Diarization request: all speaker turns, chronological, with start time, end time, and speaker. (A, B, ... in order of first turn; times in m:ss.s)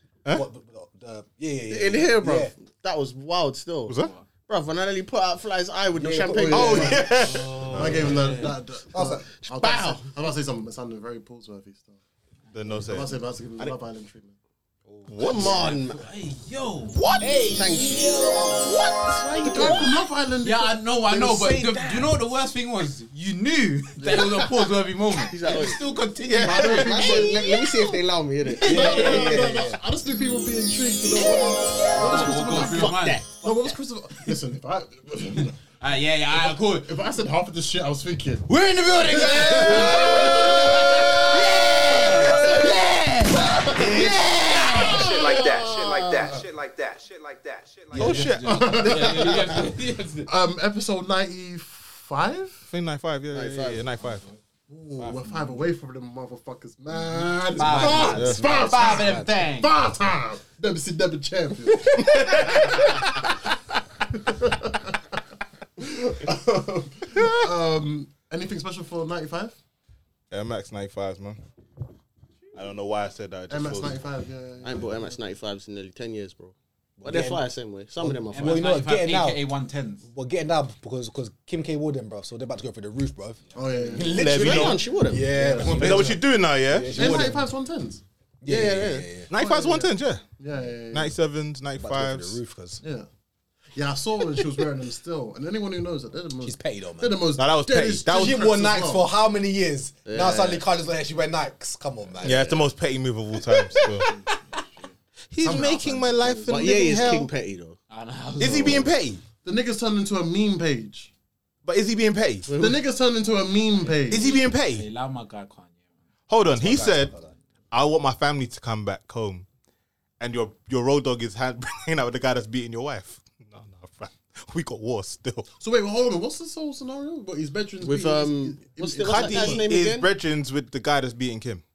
0:00.3-0:02.5 A
0:01.7-0:07.7 B
0:03.9-0:04.1 C
0:04.0-0:04.3 D
0:06.0-0:06.9 A
0:06.3-0:12.0 E
0:06.5-0:08.2 C
0:07.2-0:08.6 D
0:08.9-0:09.3 A
0:09.4-0:10.1 B
0:12.5-0:13.1 C
0:12.8-0:14.4 E
0:14.9-0:15.4 A
0:15.1-0:15.7 C
0:15.2-0:16.1 B
0:15.5-0:17.0 D
0:16.9-0:17.6 C
0:17.2-0:18.7 A
0:17.5-0:18.2 B
0:18.7-0:19.2 C
0:19.1-0:19.9 B
0:19.4-0:21.8 E
0:20.4-0:27.4 D
0:21.6-0:22.1 B
0:24.0-0:24.3 E
0:25.3-0:25.8 B
0:26.2-0:26.8 C
0:26.4-0:27.6 E
0:26.7-0:29.4 B
0:28.5-0:35.6 E
0:28.6-0:29.5 D
0:28.6-0:29.8 A
0:32.0-0:33.2 D
0:32.0-0:33.7 B
0:35.8-0:36.9 D
0:36.3-0:38.5 E
0:38.5-0:45.1 D
0:39.0-0:41.4 E
0:42.0-0:46.4 E
0:44.9-0:48.2 F
0:47.9-0:49.7 C
0:48.0-0:50.3 D
0:48.0-0:52.6 E
0:52.7-0:54.2 C
0:53.3-0:53.9 B
0:54.7-1:03.2 E
0:55.0-0:55.7 D
0:57.6-0:59.7 D
0:57.6-0:59.3 A
0:57.9-0:58.4 C
1:01.8-1:03.3 C
1:04.2-1:05.2 E
1:05.8-1:09.5 E
1:07.2-1:07.5 C
1:10.3-1:11.4 C
1:12.5-1:14.0 C
1:13.5-1:15.2 E
1:14.6-1:18.7 B
1:17.0-1:27.5 A
1:18.3-1:20.1 D
1:23.5-1:24.1 E
1:24.0-1:25.6 B
1:24.2-1:24.9 C
1:25.3-1:26.2 E
1:25.7-1:27.3 C
1:26.9-1:28.0 E
1:28.4-1:29.3 A
1:28.5-1:29.2 B
1:29.3-1:30.2 C
1:29.3-1:31.2 E
1:30.9-1:32.4 C
1:31.8-1:32.8 A
1:32.8-1:33.1 E
1:33.8-1:39.1 E
1:36.4-1:37.2 A
1:37.4-1:38.6 C
1:38.1-1:42.6 A
1:40.0-1:40.7 B
1:42.2-1:44.1 C
1:42.2-1:42.6 B
1:43.8-1:44.3 E
1:44.3-1:44.6 D
1:45.3-1:47.3 C
1:45.4-1:46.9 E
1:46.5-1:47.8 B
1:47.9-1:48.9 D
1:48.4-1:49.2 C
1:49.4-1:51.1 E
1:51.6-1:52.5 C
1:52.5-1:52.8 B
1:52.6-1:54.3 E
1:53.8-1:56.0 D
1:54.1-1:54.9 C
1:56.3-1:57.1 C
1:56.5-1:57.3 A
1:57.7-1:59.5 C
2:00.2-2:05.5 C
2:05.6-2:09.6 E
2:07.8-2:10.1 B
2:09.0-2:11.6 C